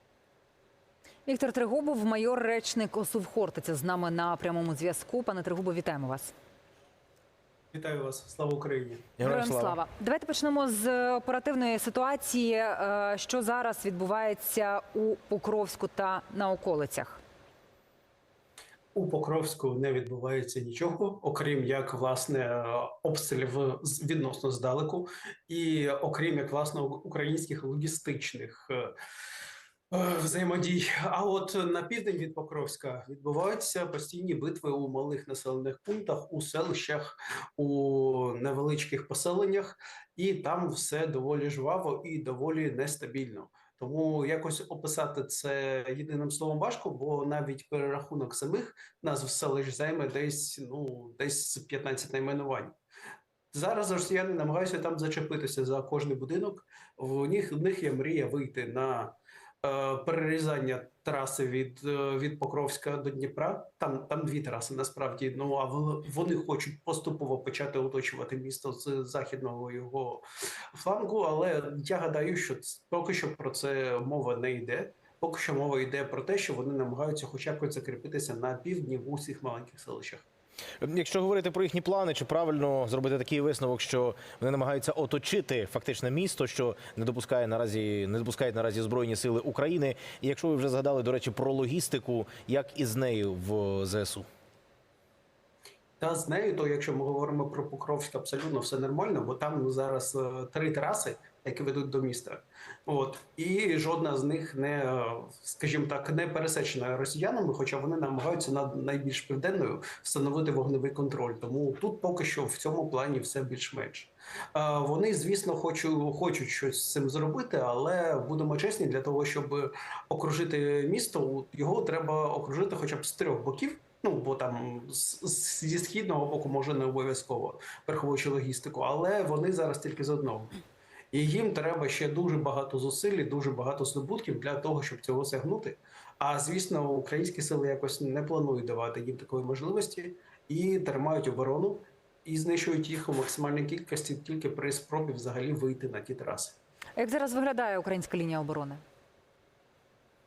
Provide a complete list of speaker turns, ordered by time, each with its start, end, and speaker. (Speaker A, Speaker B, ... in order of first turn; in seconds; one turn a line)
Speaker A: 1.3-6.3
Speaker B: 7.7-9.1
Speaker C: 9.2-9.8
Speaker A: 9.2-17.2
Speaker B: 18.9-28.9
Speaker B: 29.9-52.8
Speaker B: 53.5-80.2
Speaker C: 80.8-94.2
Speaker B: 96.0-130.6
Speaker B: 131.1-146.6
Speaker A: 147.0-148.8